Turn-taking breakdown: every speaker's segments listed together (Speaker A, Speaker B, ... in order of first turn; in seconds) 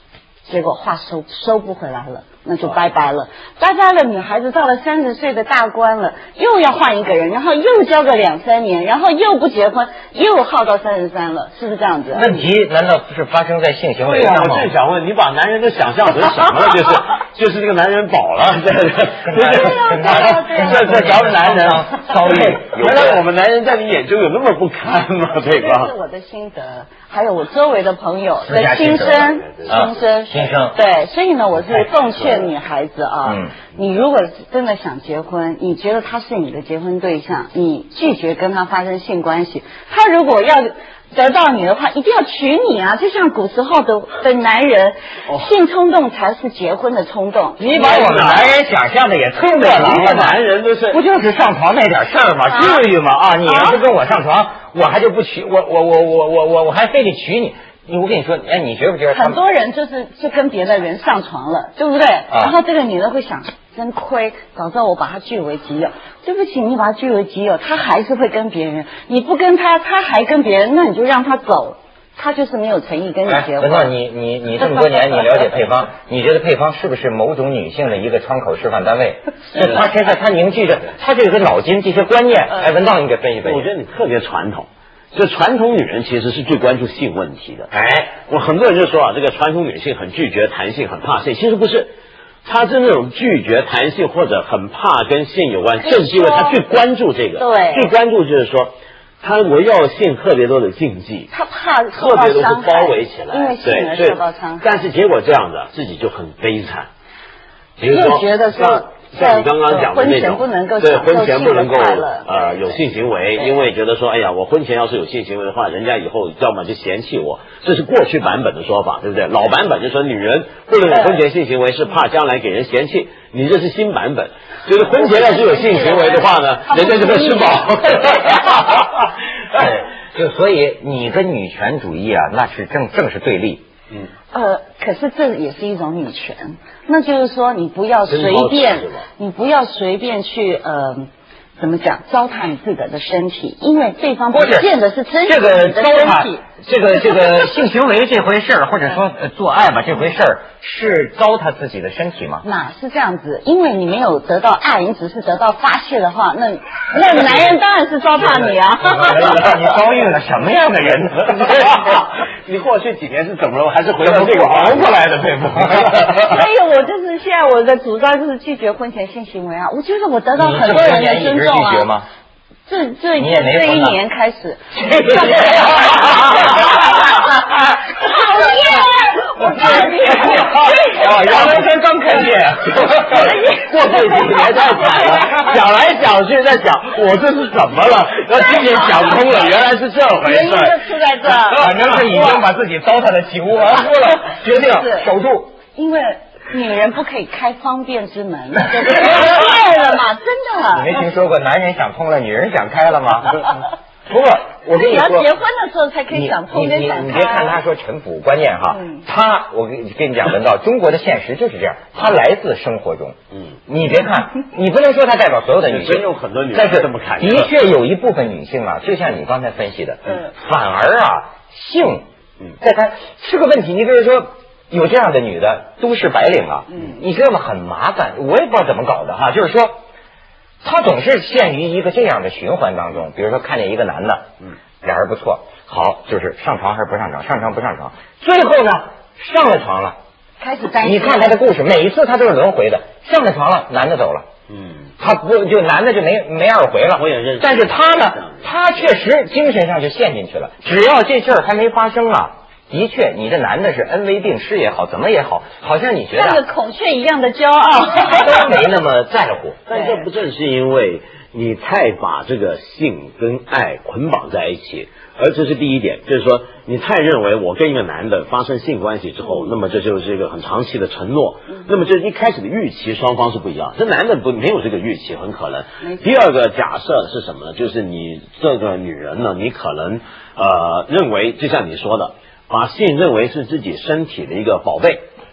Speaker A: 0.5-12.3, 19.4-21.3, 25.4-47.8, 52.5-52.9, 53.5-53.8, 59.1-74.0, 95.8-96.6, 97.4-97.9, 101.3-104.7, 107.9-112.8, 120.9-121.2, 124.9-128.6, 134.3-146.4, 152.4-159.7, 166.2-171.9, 172.7-177.4, 177.9-181.4, 183.0-185.3, 190.2-192.4, 194.5-195.1, 195.8-201.0, 204.7-207.6, 208.8-209.0, 240.4-241.4, 256.1-258.6, 259.7-260.1
Speaker B: 12.1-14.7, 19.2-23.2, 28.4-30.8, 33.3-33.5, 47.6-59.4, 73.3-83.7, 87.8-88.0, 129.5-133.7, 144.3-144.7, 145.2-152.4, 158.8-161.9, 164.0-166.2, 170.4-172.1, 173.2-174.0, 175.2-176.7, 180.3-183.1, 191.5-195.6, 199.0-199.5, 200.7-205.3, 206.1-213.2, 213.7-222.1, 222.6-229.8, 230.6-234.3, 234.8-240.0, 240.8-244.3, 245.0-256.4, 258.1-259.6
Speaker C: 14.0-25.9, 47.7-48.6, 49.6-51.0, 83.4-91.9, 92.5-101.3, 102.0-106.9, 107.8-128.9, 138.1-139.1, 161.3-166.3, 180.1-190.8, 215.7-217.5, 244.5-244.9, 246.9-248.5, 259.7-285.1